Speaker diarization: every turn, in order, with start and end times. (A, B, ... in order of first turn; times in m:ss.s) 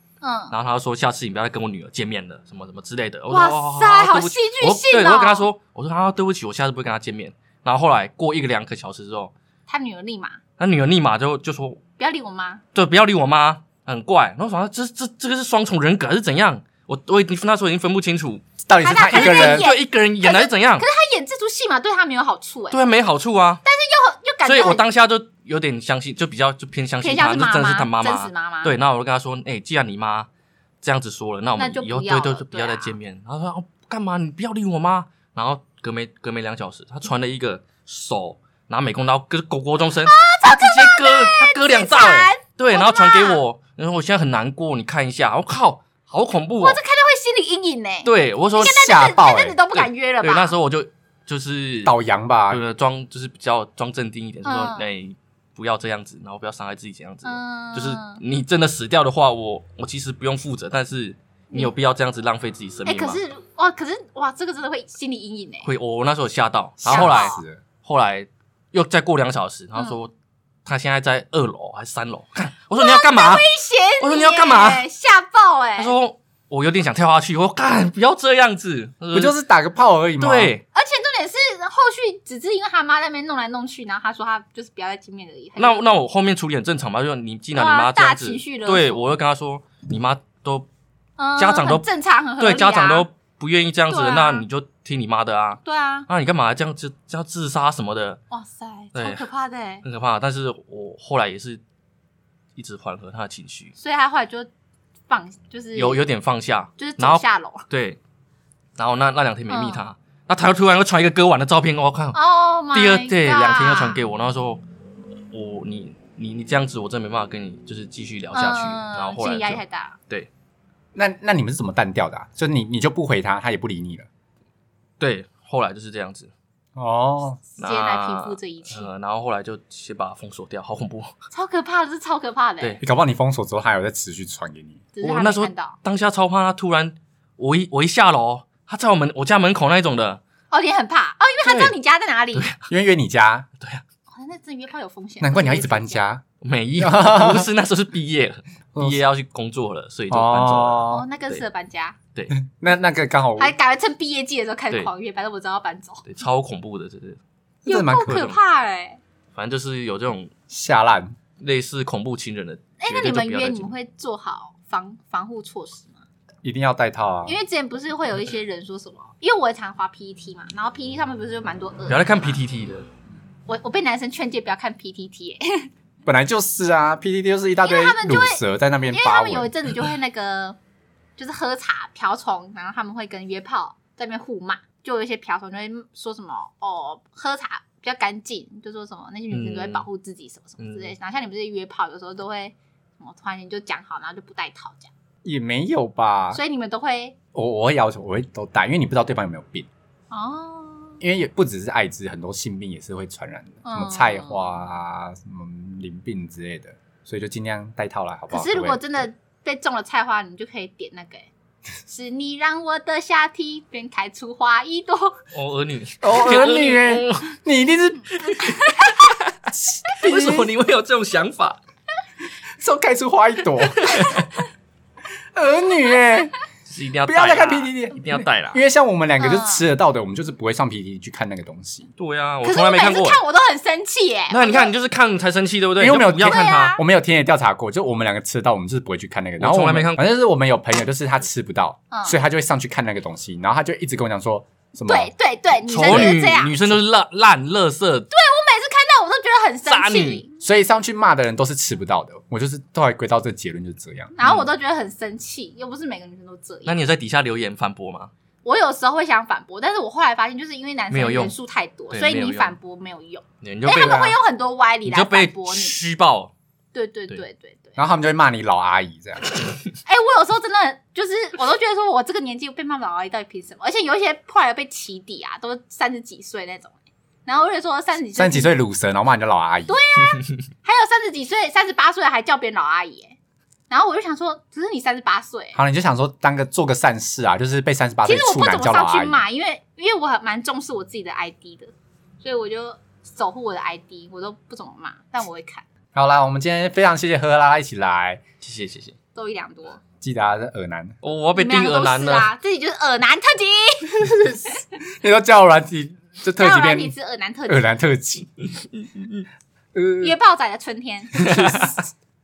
0:00.2-0:00.5 A
0:00.5-0:09.3 B
0:03.3-0:05.5 A
0:09.7-0:10.4 A
0:10.6-0:11.8 B
0:12.0-0:12.6 A
0:12.8-0:18.5 B
0:18.7-0:19.7 C
0:18.8-0:22.8 A
0:19.0-0:20.8 B
0:22.7-0:23.6 B
0:23.6-0:24.8 A
0:24.4-0:30.3 B
0:27.0-0:28.7 A
0:30.8-0:46.8 B
0:31.6-0:33.0 A
0:40.0-0:43.4 A
0:46.6-0:50.6 A
0:48.0-0:48.8 B
0:48.6-0:49.6 C
0:49.7-0:51.9 B
0:51.8-0:52.6 C
0:52.5-1:03.2 B
0:54.4-0:54.9 A
0:57.2-0:58.2 A
1:02.9-1:05.7 A
1:05.6-1:10.1 B
1:06.8-1:07.6 C
1:06.9-1:07.4 A
1:10.6-1:13.5 B
1:12.7-1:16.0 A
1:14.0-1:14.9 B
1:15.8-1:19.4 B
1:19.1-1:20.5 C
1:20.2-1:20.6 B
1:20.7-1:25.8 A
1:25.6-1:30.7 B
1:27.5-1:29.0 A
1:31.2-1:33.1 A
1:31.4-1:31.9 B
1:32.4-1:38.2 B
1:33.9-1:34.4 A
1:35.6-1:36.1 A
1:38.3-1:39.8 A
1:39.0-1:39.3 B
1:39.8-1:41.6 B
1:42.6-1:43.7 B
1:43.8-1:44.5 A
1:45.1-1:46.0 A
1:45.8-1:48.0 B
1:46.8-1:47.6 A
1:48.8-1:52.2 B
1:49.5-1:49.9 A
1:52.1-1:54.0 A
1:52.7-1:54.6 B
1:55.3-2:00.3 B
1:58.3-2:00.0 A
2:01.0-2:04.1 C
2:05.0-2:06.3 B
2:06.8-2:07.4 C
2:07.5-2:08.9 A
2:07.6-2:11.1 B
2:11.3-2:12.8 A
2:12.8-2:14.9 C
2:14.9-2:15.8 A
2:15.0-2:20.2 B
2:20.5-2:22.5 A
2:21.4-2:21.8 B
2:22.3-2:22.7 B
2:22.7-2:23.5 C
2:24.1-2:26.0 A
2:25.2-2:26.2 C
2:26.4-2:31.4 B
2:26.8-2:27.5 C
2:28.8-2:29.0 C
2:30.1-2:31.1 C
2:30.9-2:32.0 A
2:32.3-2:33.6 C
2:33.4-2:36.0 A
2:36.0-2:37.2 B
2:37.6-2:38.3 C
2:37.7-2:39.0 A
2:38.0-2:38.4 B
2:39.3-2:40.3 B
2:40.5-2:41.2 C
2:41.4-2:43.7 B
2:42.8-2:46.0 A
2:46.4-2:47.4 C
2:47.2-2:52.4 A
2:51.9-2:52.9 B
2:53.5-2:55.7 A
2:56.0-2:59.5 C
2:57.6-3:00.6 A
3:01.2-3:14.9 A
3:09.3-3:09.9 B
3:10.6-3:10.9 B
3:15.2-3:16.4 C
3:16.3-3:17.2 A
3:17.3-3:19.7 C
3:20.1-3:21.0 A
3:21.0-3:28.9 C
3:23.6-3:24.6 A
3:28.3-3:31.3 A
3:31.9-3:35.1 A
3:35.3-3:37.3 B
3:36.0-3:38.2 C
3:38.2-3:39.3 B
3:38.4-3:38.9 A
3:39.5-3:40.5 C
3:40.0-3:41.6 B
3:42.6-3:44.0 C
3:43.8-3:44.3 B
3:45.3-3:46.3 C
3:46.7-3:48.6 B
3:47.1-3:51.9 C
3:49.2-3:49.6 A
3:52.0-3:53.2 B
3:52.4-3:54.7 A
3:54.3-3:56.8 B
3:55.8-4:05.1 C
3:56.2-3:56.8 A
3:59.4-4:00.0 B
4:01.9-4:02.2 A
4:04.9-4:06.6 A
4:05.7-4:08.1 B
4:05.8-4:06.2 C
4:08.1-4:10.3 A
4:09.7-4:10.2 B
4:10.4-4:14.1 C
4:14.2-4:16.8 A
4:14.2-4:14.5 B
4:16.7-4:18.1 B
4:18.4-4:25.8 A
4:20.9-4:21.4 B
4:21.9-4:22.5 B
4:23.4-4:24.0 B
4:23.7-4:24.2 C
4:24.8-4:26.3 B
4:26.7-4:27.8 A
4:27.8-4:29.4 C
4:29.9-4:38.6 A
4:38.2-4:39.8 C
4:39.7-4:43.2 A
4:43.7-4:45.6 A
4:45.6-4:49.2 C
4:48.0-4:55.6 A
4:55.9-4:58.2 C
4:58.4-4:59.0 B
4:59.1-4:59.8 A
5:00.0-5:01.0 C
5:01.0-5:02.3 B
5:01.4-5:04.4 A
5:04.0-5:06.9 C
5:06.4-5:07.7 A
5:07.5-5:08.3 C
5:08.8-5:09.2 B
5:09.7-5:10.1 C
5:10.0-5:11.7 A
5:11.1-5:11.8 C